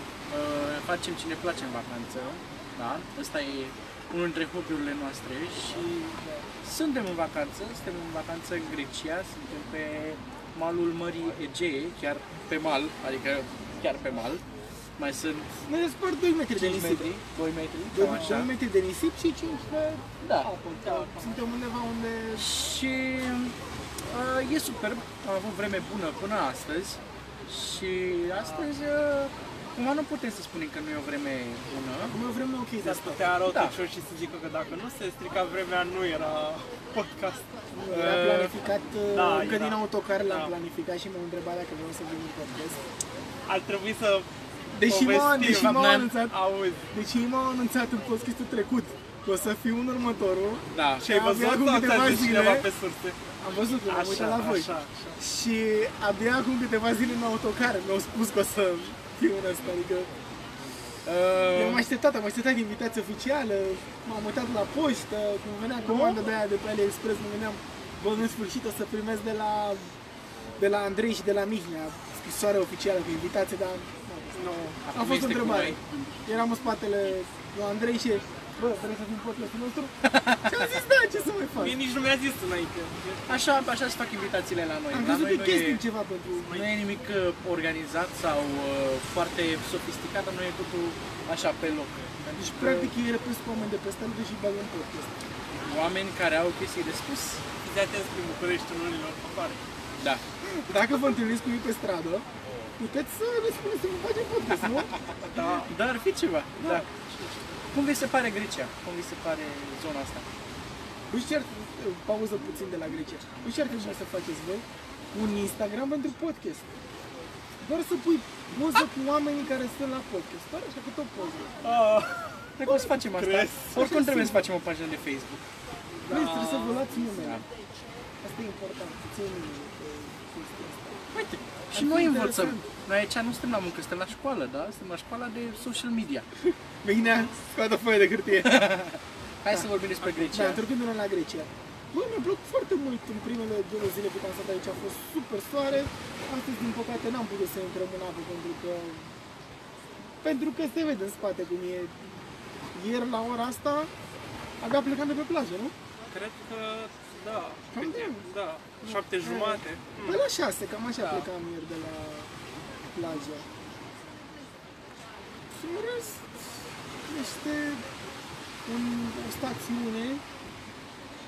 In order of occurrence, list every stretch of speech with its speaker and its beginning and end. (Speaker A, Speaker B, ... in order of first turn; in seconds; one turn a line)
Speaker A: 0.3-5.9
Speaker B: 5.7-6.5
Speaker A: 6.6-14.4
Speaker A: 15.0-15.5
Speaker C: 15.7-17.1
Speaker A: 16.5-18.5
Speaker C: 17.9-22.5
Speaker B: 18.0-18.5
Speaker A: 20.2-20.5
Speaker B: 20.8-21.4
Speaker A: 22.4-32.1
Speaker B: 28.3-28.7
Speaker C: 32.1-33.3
Speaker B: 32.8-37.4
Speaker A: 33.5-33.8
Speaker C: 37.7-42.8
Speaker A: 37.9-38.5
Speaker B: 39.1-40.5
Speaker B: 43.5-44.3
Speaker C: 44.7-46.4
Speaker B: 44.9-46.9
Speaker A: 45.4-46.1
Speaker C: 46.9-52.7
Speaker A: 50.7-51.1
Speaker B: 51.0-53.2
Speaker C: 53.4-60.1
Speaker B: 53.9-55.2
Speaker A: 61.0-61.9
Speaker C: 61.5-69.9
Speaker B: 65.9-66.2
Speaker C: 70.6-81.8
Speaker B: 74.3-74.8
Speaker A: 74.8-75.8
Speaker A: 80.0-80.7
Speaker B: 81.6-83.3
Speaker A: 83.3-85.8
Speaker C: 84.9-86.5
Speaker B: 86.5-86.7
Speaker A: 86.5-92.9
Speaker C: 92.3-95.2
Speaker A: 95.6-97.4
Speaker B: 97.6-99.6
Speaker C: 100.4-102.2
Speaker C: 102.8-105.6
Speaker A: 104.6-104.9
Speaker B: 105.2-105.7
Speaker A: 105.6-106.8
Speaker B: 106.6-107.6
Speaker A: 107.7-110.2
Speaker C: 111.1-116.7
Speaker C: 117.6-121.6
Speaker B: 121.6-123.8
Speaker A: 122.6-125.4
Speaker C: 122.7-122.9
Speaker C: 123.7-124.4
Speaker B: 126.0-126.9
Speaker C: 126.1-127.4
Speaker A: 127.2-127.4
Speaker C: 128.2-131.0
Speaker A: 131.1-136.2
Speaker C: 131.7-132.7
Speaker C: 136.8-138.7
Speaker A: 138.4-140.6
Speaker B: 140.0-140.3
Speaker C: 140.3-149.1
Speaker C: 150.2-151.9
Speaker C: 152.7-153.9
Speaker C: 154.6-155.7
Speaker B: 156.1-160.2
Speaker C: 157.7-158.2
Speaker C: 158.8-162.3
Speaker B: 161.0-161.3
Speaker C: 162.9-163.5
Speaker C: 165.5-167.8
Speaker C: 168.7-170.2